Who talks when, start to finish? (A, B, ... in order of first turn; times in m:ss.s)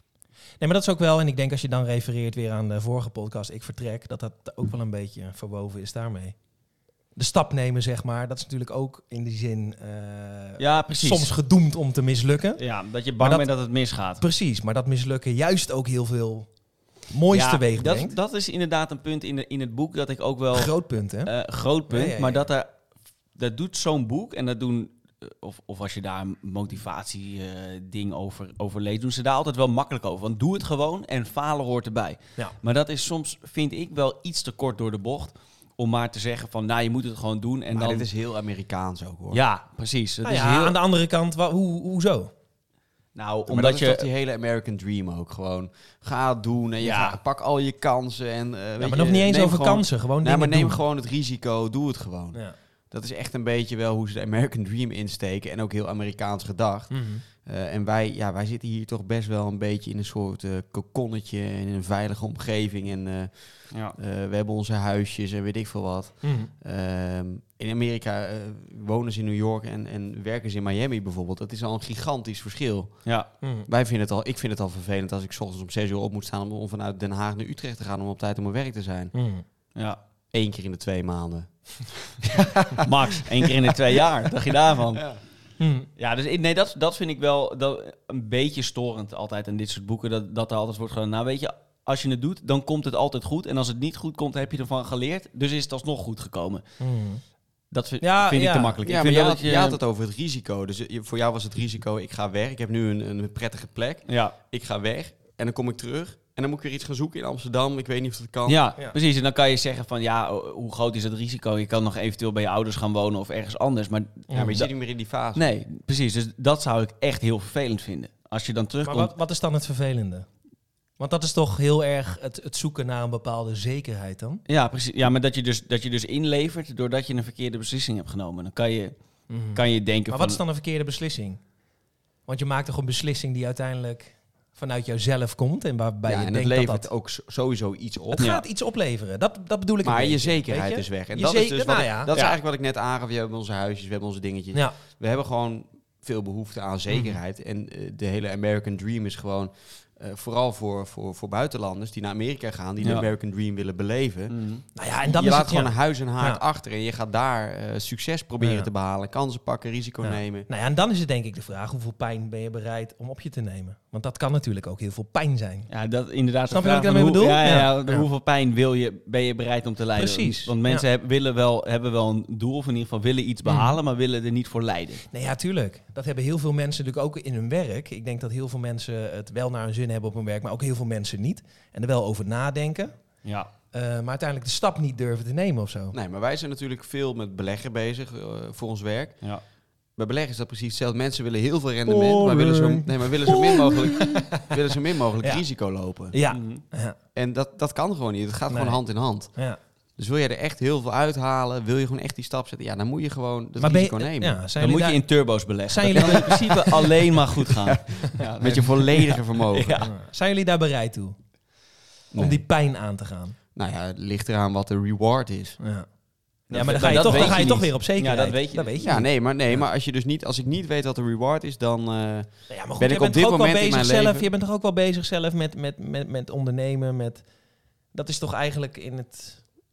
0:00.6-0:06.4 A
0:07.2-0:12.6 A
0:10.6-0:11.3 B
0:12.6-0:14.2 B
0:13.2-0:13.4 A
0:14.2-0:16.5 A
0:17.1-0:18.2 A
0:17.3-0:22.7 B
0:20.5-0:21.3 A
0:21.9-0:22.5 A
0:23.4-0:38.1 B
0:37.7-0:39.4 C
0:39.3-0:40.8 B
0:40.2-0:42.3 A
0:43.2-0:44.1 B
0:43.5-0:52.4 C
0:46.8-0:47.2 B
0:48.8-0:50.8 A
0:52.9-1:13.1 C
0:56.9-0:57.2 A
1:06.2-1:06.5 A
1:13.4-1:13.7 A
1:13.7-1:19.1 C
1:19.1-1:19.4 A
1:20.3-1:23.7 C
1:22.8-1:25.1 B
1:25.6-1:25.9 A
1:26.0-1:36.6 B
1:36.8-1:37.2 A
1:37.7-1:39.8 B
1:38.0-1:38.8 A
1:38.8-1:48.6 C
1:44.1-1:44.4 B
1:48.5-1:54.7 B
1:54.3-1:54.6 A
1:54.3-1:55.5 C
1:55.4-1:59.1 B
1:58.8-2:00.3 A
2:01.0-2:04.4 A
2:04.5-2:08.9 B
2:09.3-2:11.4 A
2:09.5-2:10.4 B
2:12.3-2:16.9 A
2:16.1-2:18.3 C
2:18.1-2:22.1 A
2:18.2-2:18.4 B
2:19.8-2:34.4 C
2:26.9-2:27.2 A
2:32.8-2:33.1 B
2:34.3-2:34.6 B
2:34.8-2:36.4 A
2:35.0-2:40.5 C
2:38.4-2:38.7 A
2:40.0-2:45.7 A
2:45.7-2:55.0 B
2:46.5-2:48.1 A
2:50.0-2:50.8 A
2:53.5-2:53.8 A
2:55.1-3:03.0 A
3:03.2-3:03.5 B
3:03.7-3:06.0 A
3:05.9-3:09.2 C
3:10.0-3:16.2 C
3:11.9-3:14.5 A
3:16.1-3:17.0 A
3:16.3-3:16.6 B
3:17.2-3:19.3 C
3:18.5-3:18.8 A
3:20.0-3:24.4 C
3:23.6-3:25.0 A
3:24.6-3:29.9 B
3:25.7-3:27.0 A
3:27.6-3:29.9 C
3:29.8-3:31.2 A
3:32.1-3:32.4 C
3:32.2-3:33.4 A
3:33.6-3:35.6 C
3:35.6-3:35.9 A
3:36.5-3:37.5 C
3:36.5-3:39.6 A
3:36.5-3:38.9 B
3:38.8-3:44.3 C
3:42.5-3:47.2 A
3:47.9-3:49.4 A